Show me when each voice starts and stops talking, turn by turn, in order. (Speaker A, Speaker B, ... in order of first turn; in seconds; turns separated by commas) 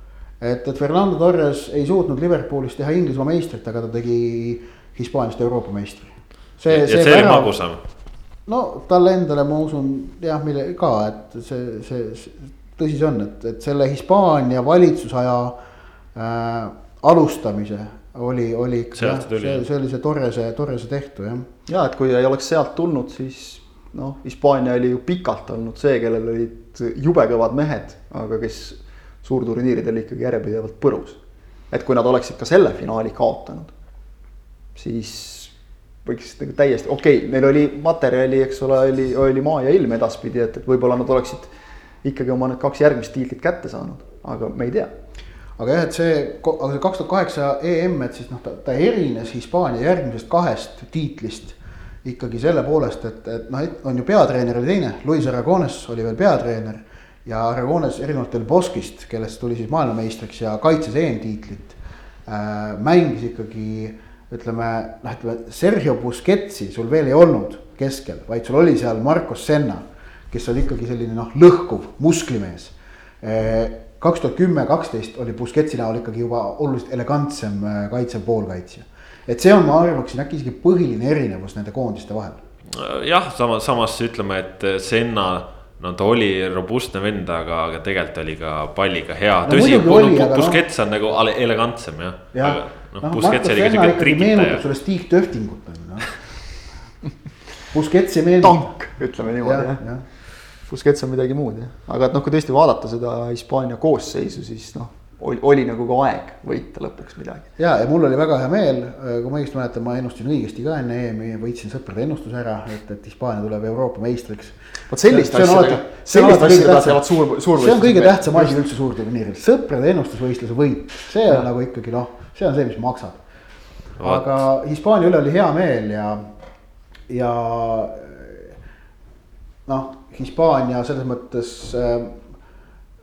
Speaker A: 0.4-7.5, Speaker B: 6.7-7.8, Speaker A: 8.5-15.6, Speaker A: 16.1-21.5, Speaker B: 18.9-19.6, Speaker C: 21.7-31.2, Speaker C: 31.7-33.7, Speaker C: 34.7-35.5, Speaker C: 36.0-41.5, Speaker C: 42.0-44.9, Speaker A: 45.6-82.4, Speaker B: 82.7-94.6, Speaker A: 89.4-90.6, Speaker A: 92.3-96.1, Speaker A: 97.7-98.6, Speaker C: 98.4-99.8, Speaker A: 99.4-100.0, Speaker C: 100.7-107.5, Speaker A: 107.6-117.0, Speaker C: 114.9-118.6, Speaker A: 117.5-123.2, Speaker B: 124.0-124.4, Speaker A: 124.0-126.2, Speaker A: 127.1-128.5, Speaker A: 129.7-132.2